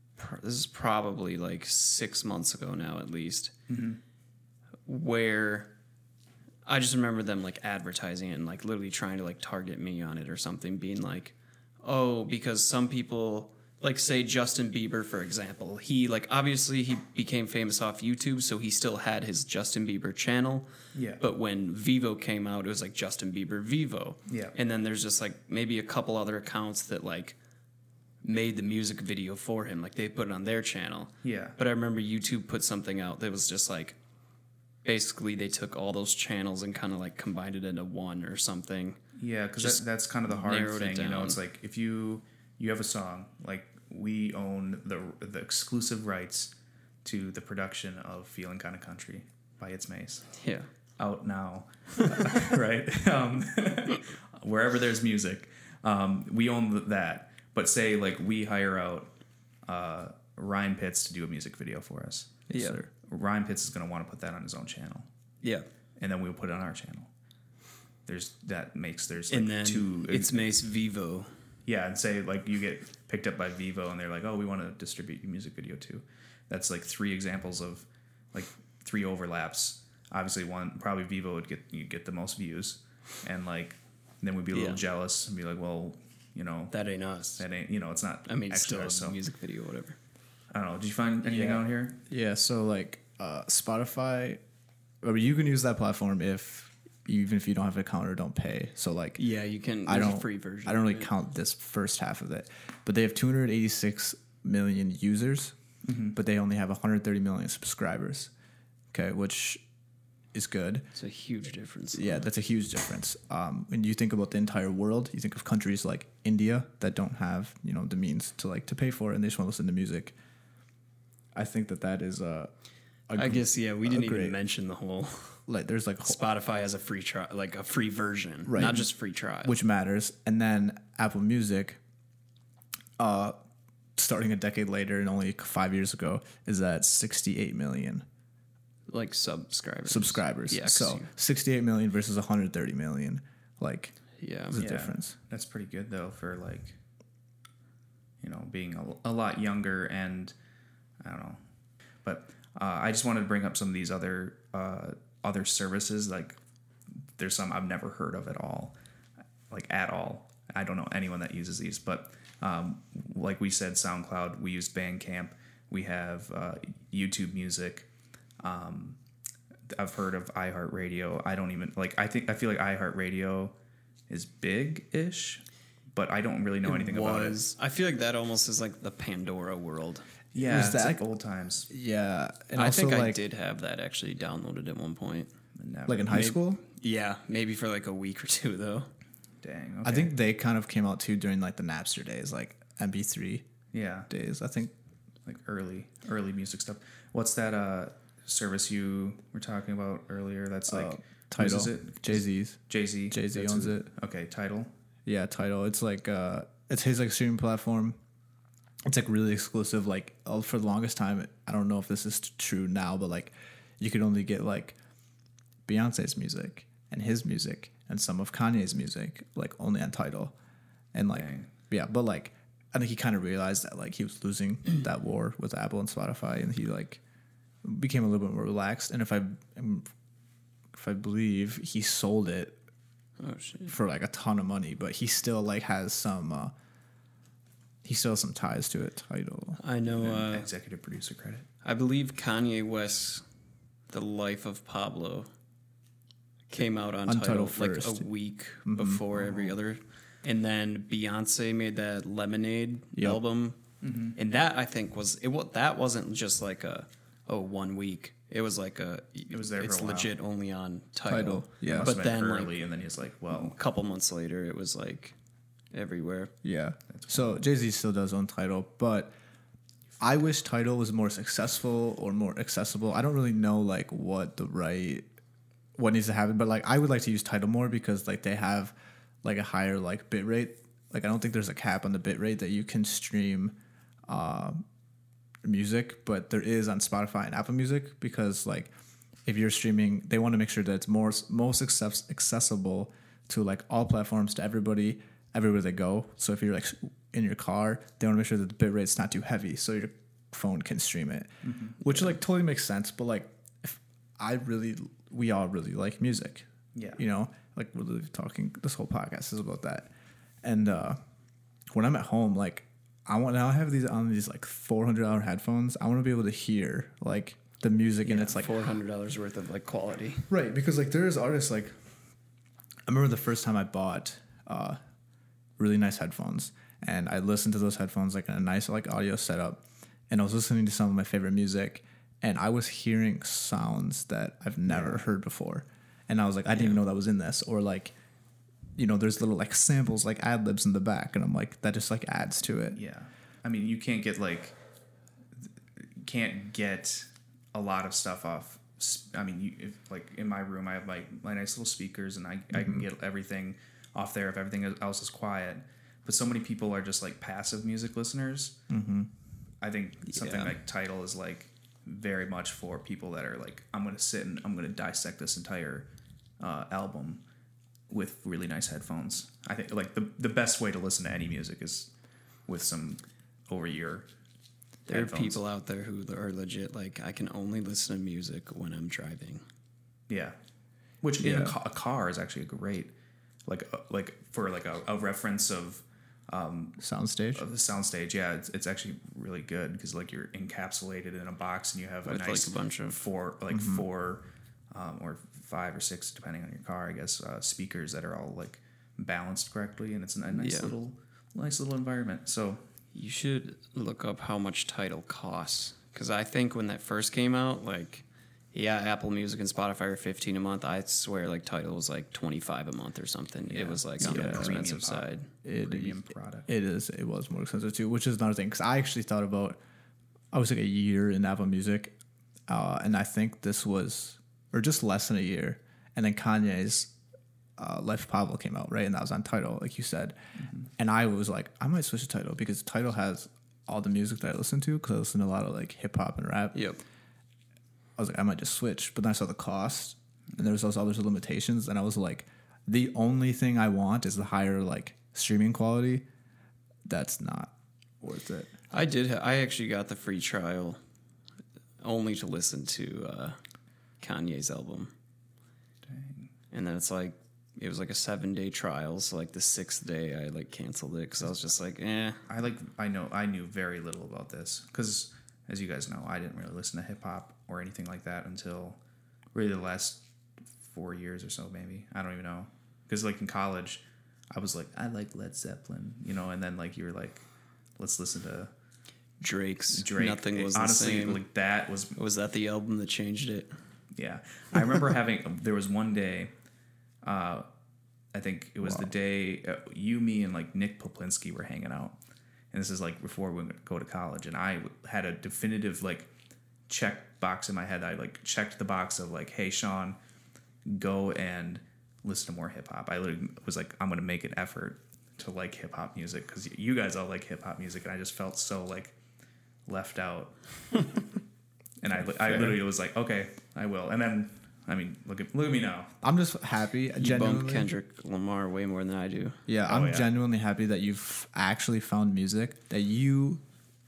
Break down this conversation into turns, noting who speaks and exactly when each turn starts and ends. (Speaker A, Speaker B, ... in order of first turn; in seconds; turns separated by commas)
Speaker A: 0.2-3.5, Speaker B: 3.7-4.0, Speaker A: 4.8-5.7, Speaker A: 6.7-27.4, Speaker B: 20.9-21.2, Speaker B: 24.3-24.5, Speaker A: 28.2-34.0, Speaker B: 31.2-31.6, Speaker A: 34.8-39.0, Speaker B: 39.2-46.5, Speaker A: 39.6-41.4, Speaker B: 47.0-50.3, Speaker A: 50.4-50.7, Speaker B: 51.0-59.1, Speaker B: 59.6-65.1, Speaker C: 62.5-62.9, Speaker A: 62.5-62.8, Speaker B: 66.0-67.1, Speaker B: 68.0-70.5, Speaker A: 69.3-71.3, Speaker B: 71.7-86.7, Speaker A: 84.5-84.8, Speaker A: 86.7-87.4, Speaker B: 87.4-89.2, Speaker A: 88.2-90.0, Speaker B: 90.5-92.0, Speaker A: 91.2-91.6, Speaker C: 92.1-94.4, Speaker C: 95.0-99.2, Speaker A: 99.2-101.1, Speaker C: 99.8-105.5, Speaker B: 105.8-106.2, Speaker C: 106.1-108.3, Speaker C: 108.9-109.6, Speaker C: 110.3-110.9, Speaker A: 110.9-112.3, Speaker C: 111.9-120.1, Speaker C: 121.3-122.5, Speaker C: 123.1-124.3, Speaker A: 123.2-125.4, Speaker C: 125.5-126.2, Speaker A: 126.0-129.6, Speaker C: 128.4-128.9, Speaker C: 129.4-131.8, Speaker C: 133.0-133.3, Speaker C: 134.0-138.0, Speaker A: 138.9-141.1, Speaker C: 139.8-143.9, Speaker A: 144.2-144.6, Speaker C: 144.5-145.2, Speaker B: 144.6-146.8, Speaker B: 148.2-150.3, Speaker B: 151.0-151.4, Speaker B: 152.0-156.4, Speaker B: 157.2-158.7, Speaker B: 159.5-167.9, Speaker B: 168.4-169.0, Speaker B: 169.7-173.5, Speaker B: 174.1-177.4, Speaker A: 176.6-180.1, Speaker B: 180.3-181.7, Speaker C: 180.4-181.0, Speaker C: 181.7-183.2, Speaker A: 182.5-185.3, Speaker B: 185.6-186.3, Speaker C: 185.9-186.6, Speaker A: 186.1-188.9, Speaker B: 189.4-190.1, Speaker C: 189.8-193.4, Speaker B: 193.7-194.1, Speaker C: 194.1-194.7, Speaker B: 195.2-204.7, Speaker C: 200.7-202.6, Speaker C: 203.1-203.9, Speaker C: 205.1-208.0, Speaker C: 208.8-214.8, Speaker C: 215.7-220.3, Speaker C: 220.9-227.0, Speaker B: 221.1-221.5, Speaker C: 227.6-229.9, Speaker C: 230.7-232.6, Speaker A: 233.2-233.7, Speaker C: 233.7-236.5, Speaker C: 237.8-239.6, Speaker A: 239.6-240.5, Speaker B: 239.9-241.5, Speaker A: 241.6-243.2, Speaker A: 243.9-245.3, Speaker A: 246.5-253.6, Speaker C: 247.1-248.1, Speaker C: 248.6-249.3, Speaker C: 252.9-253.2, Speaker B: 253.8-254.2, Speaker A: 254.2-262.7, Speaker B: 259.3-260.1, Speaker C: 261.1-261.9, Speaker B: 261.7-263.6, Speaker A: 263.3-265.1, Speaker A: 265.7-266.3, Speaker C: 266.4-269.1, Speaker B: 266.9-267.4, Speaker C: 270.0-275.0, Speaker C: 275.8-278.7, Speaker C: 279.2-283.5, Speaker C: 284.1-284.6, Speaker C: 285.4-288.7, Speaker C: 289.2-301.3, Speaker B: 301.4-302.1, Speaker C: 301.8-309.9, Speaker B: 306.7-307.0, Speaker C: 310.4-311.0, Speaker C: 311.7-318.6, Speaker A: 318.0-320.3, Speaker C: 320.3-321.7, Speaker C: 322.9-324.8, Speaker C: 325.6-337.9, Speaker B: 334.7-335.0, Speaker C: 338.8-342.8, Speaker B: 342.7-344.6, Speaker B: 345.4-358.6, Speaker C: 352.5-352.8, Speaker C: 358.7-359.1, Speaker B: 359.6-365.9, Speaker A: 360.1-360.6, Speaker B: 366.4-367.2, Speaker B: 367.9-371.9, Speaker B: 372.5-374.1, Speaker A: 374.9-379.4, Speaker B: 374.9-375.4, Speaker B: 380.1-380.3, Speaker B: 381.0-382.9, Speaker C: 381.2-381.5, Speaker B: 383.4-386.8, Speaker C: 386.8-387.4, Speaker B: 387.3-402.6, Speaker A: 392.0-393.1, Speaker C: 393.5-393.8, Speaker A: 400.3-400.7, Speaker A: 402.9-415.3, Speaker B: 413.5-416.5, Speaker C: 414.0-414.5, Speaker C: 415.4-419.6, Speaker C: 420.3-421.9, Speaker C: 422.5-426.9, Speaker C: 427.6-430.1, Speaker C: 430.8-436.6, Speaker A: 436.5-436.8, Speaker C: 438.0-446.0, Speaker C: 446.9-448.5, Speaker A: 448.7-450.8, Speaker A: 451.8-453.4, Speaker A: 454.0-454.9, Speaker B: 455.9-456.3, Speaker A: 456.5-462.2, Speaker B: 462.3-468.8, Speaker B: 469.3-470.0, Speaker B: 470.6-477.2, Speaker B: 477.8-478.5, Speaker A: 479.2-481.2, Speaker B: 479.7-482.0, Speaker A: 481.9-483.5, Speaker B: 483.9-486.3, Speaker B: 487.0-487.4, Speaker B: 488.1-492.0, Speaker B: 492.5-496.1, Speaker B: 496.7-500.0, Speaker B: 500.6-508.9, Speaker B: 509.7-510.3, Speaker B: 511.8-515.9, Speaker C: 512.2-512.6, Speaker C: 516.0-517.7, Speaker A: 517.0-519.4, Speaker C: 519.5-523.4, Speaker B: 519.6-520.1